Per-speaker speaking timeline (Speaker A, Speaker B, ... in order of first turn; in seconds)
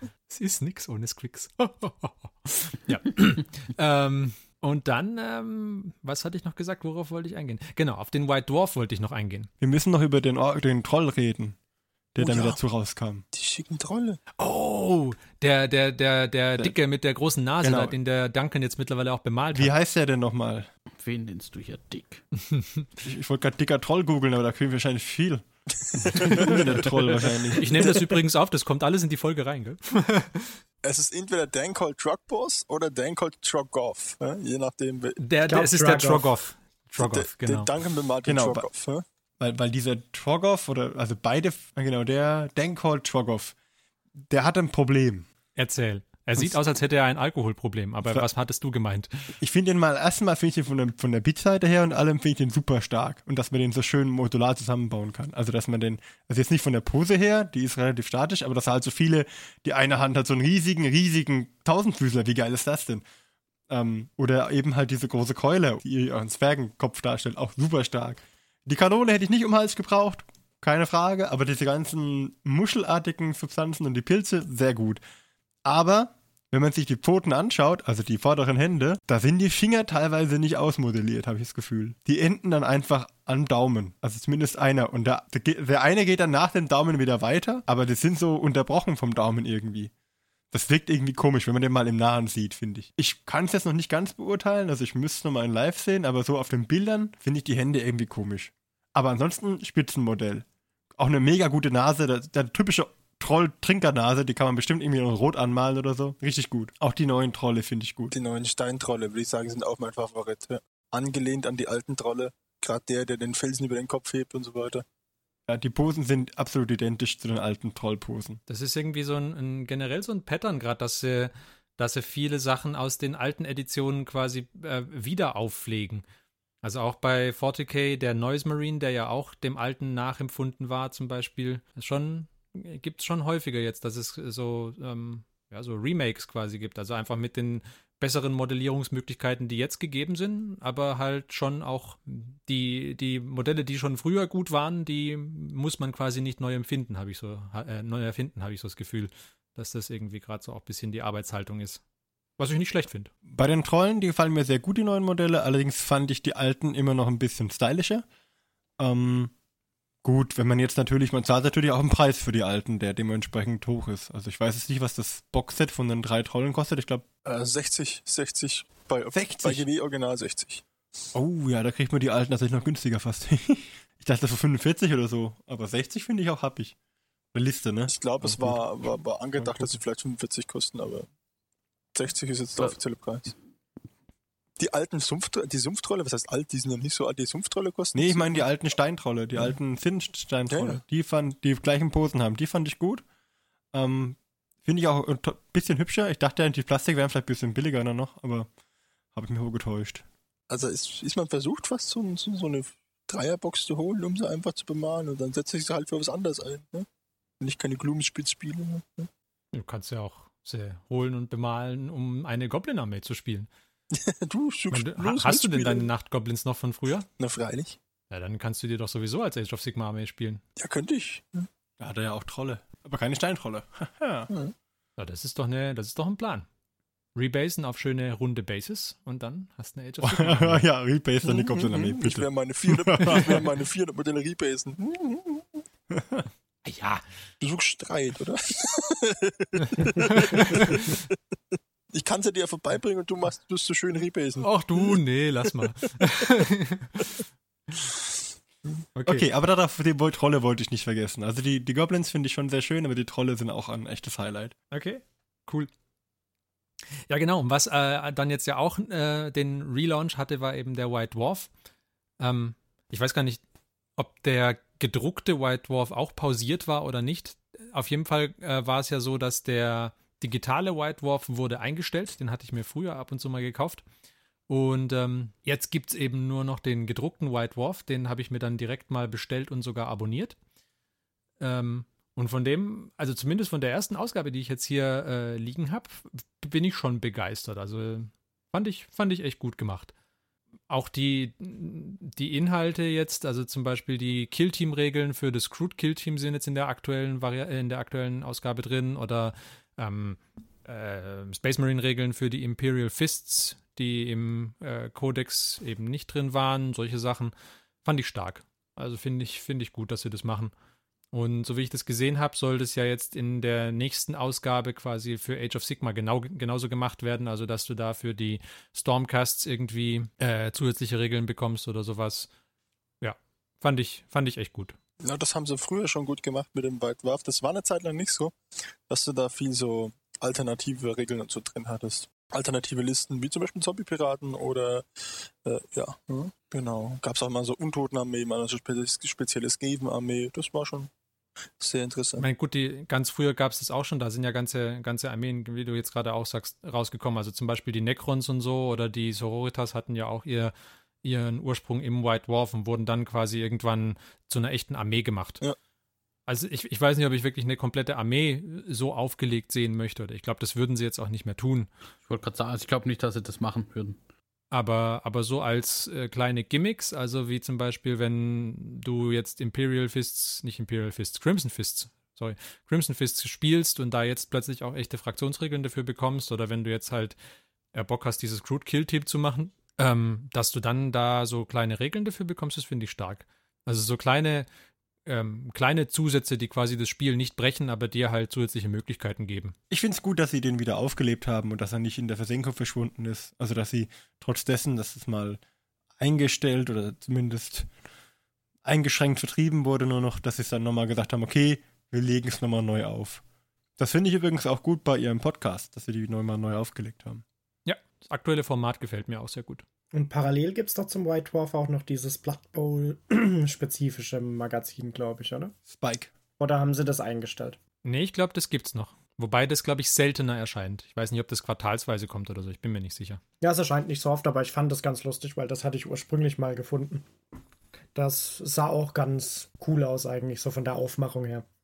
Speaker A: 0.3-9.5, 14.4-19.7, 22.5-22.8, 27.6-30.5, 35.2-37.7, 45.6-49.3, 118.5-126.0, 126.6-151.8, 152.4-153.1, 209.5-213.5, 214.7-217.1, 218.1-220.4, 225.0-226.5, 227.2-230.6, 236.7-237.0, 239.8-240.8, 244.4-247.2, 248.9-249.2, 254.7-255.7, 257.1-261.5, 262.2-263.4, 264.0-273.8, 274.5-280.4, 281.4-289.9, 290.7-310.5, 311.1-322.3, 323.0-324.8, 342.2-355.4, 356.3-361.7, 364.5-377.2, 377.7-384.5, 385.1-389.6, 407.7-409.6, 417.8-423.2
Speaker B: 9.6-11.6, 12.1-13.2, 17.6-17.9, 19.6-20.7, 23.0-27.8, 38.2-38.7, 39.4-43.5, 44.3-45.3, 49.4-63.0, 63.7-75.0, 75.7-89.9, 90.5-108.1, 115.5-118.4, 153.3-158.1, 158.8-159.3, 160.0-167.1, 169.1-169.6, 171.1-176.8, 177.3-178.6, 179.4-179.8, 187.9-193.0, 193.7-198.5, 199.1-200.1, 221.8-224.3, 230.0-233.5, 235.9-236.3, 249.1-254.6, 389.7-395.4, 396.0-397.7, 398.6-403.2, 403.8-407.2, 415.7-416.1
Speaker C: 12.2-12.6, 13.3-14.2, 25.9-26.6, 27.8-28.1, 30.8-35.2, 37.0-39.0, 108.1-114.8, 167.2-170.7, 177.9-181.1, 181.9-183.3, 184.6-188.4, 190.5-190.8, 200.5-206.9, 207.4-209.1, 213.9-215.8, 217.2-217.8, 220.6-221.5, 231.2-235.6, 237.4-244.9, 325.0-340.9, 341.6-342.3
Speaker D: 21.0-22.2, 362.1-364.0
Speaker E: 35.5-36.3, 409.9-415.5, 416.4-417.6, 423.4-427.1, 427.9-431.4